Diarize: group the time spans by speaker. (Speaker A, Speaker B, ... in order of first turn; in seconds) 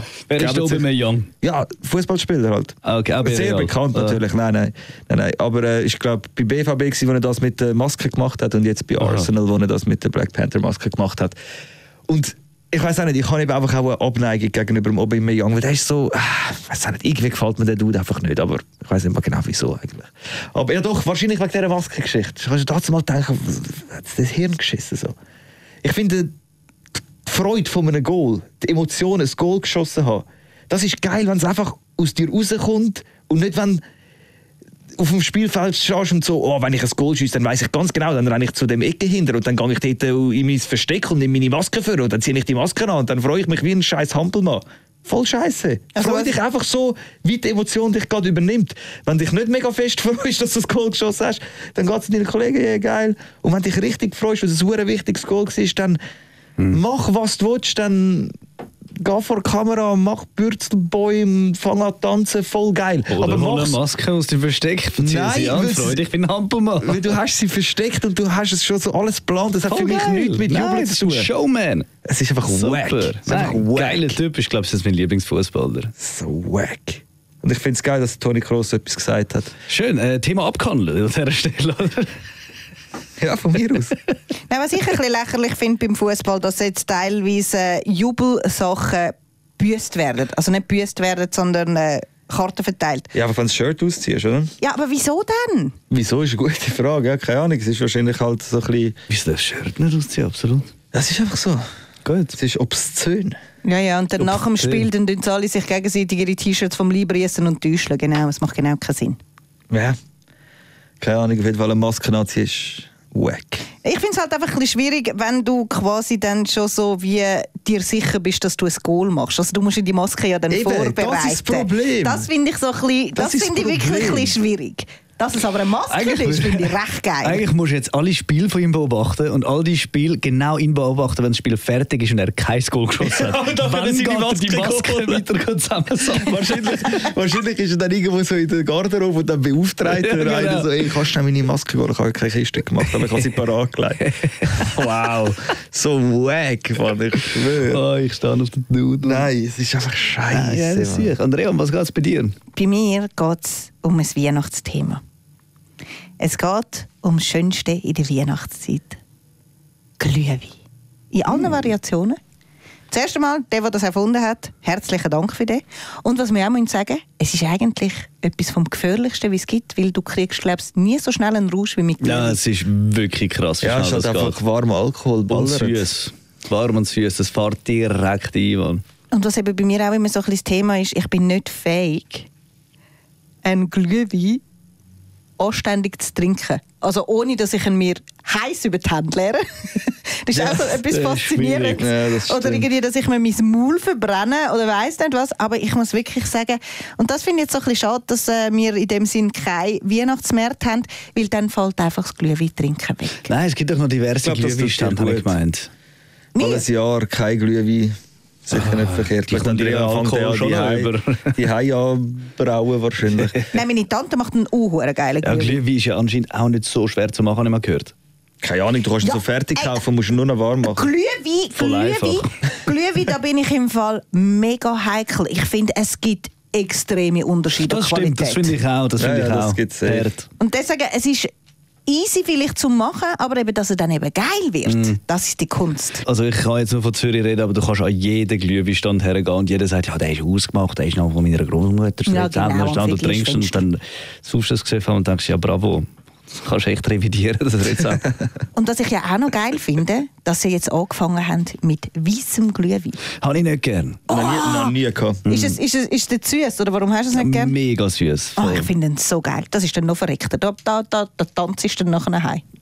Speaker A: 0.3-1.3, 2.9-4.2, 9.0-9.3, 63.1-67.1, 69.7-71.9, 72.5-75.9, 79.7-82.1, 99.1-100.7, 102.0-102.4, 104.2-104.9, 125.9-137.0, 139.8-140.9, 142.8-143.3, 144.0-145.3, 147.7-149.3, 150.3-152.3, 172.0-174.4, 175.3-178.8, 190.6-191.9, 203.3-205.7, 208.5-211.4, 213.1-213.5, 215.2-217.9, 221.6-222.2, 227.6-230.3, 234.7-235.0, 236.0-248.1, 253.2-254.0, 255.2-255.6, 257.1-258.7
Speaker B: 0.4-0.9, 1.4-11.4, 12.1-25.1, 25.8-26.3, 27.2-33.8, 35.0-56.0, 56.7-58.3, 59.0-63.8, 65.0-66.0, 66.8-71.3, 72.0-74.2, 76.0-79.5, 83.2-83.9, 93.1-94.5, 95.9-99.0, 100.9-101.6, 102.3-103.4, 109.7-110.0, 111.0-113.6, 120.5-122.3, 123.2-124.3, 133.0-135.3, 136.1-147.8, 149.0-151.1, 173.6-175.9, 190.3-190.7, 191.8-192.7, 204.2-205.3, 206.4-207.9, 208.4-213.4, 218.4-220.9, 229.0-230.1, 254.1-255.2
Speaker C: 46.0-46.3, 84.5-93.1, 94.6-95.8, 103.6-109.2, 113.8-127.4, 152.5-155.0, 156.2-159.0, 160.0-160.6, 161.1-162.2, 162.9-172.4, 179.1-182.3, 183.4-184.4, 185.4-203.3, 206.3-206.7, 213.5-215.6, 219.0-219.8, 220.6-228.5, 230.4-231.3, 231.9-236.0, 242.1-243.6, 248.6-253.0, 254.1-254.8, 255.3-257.6, 258.4-262.4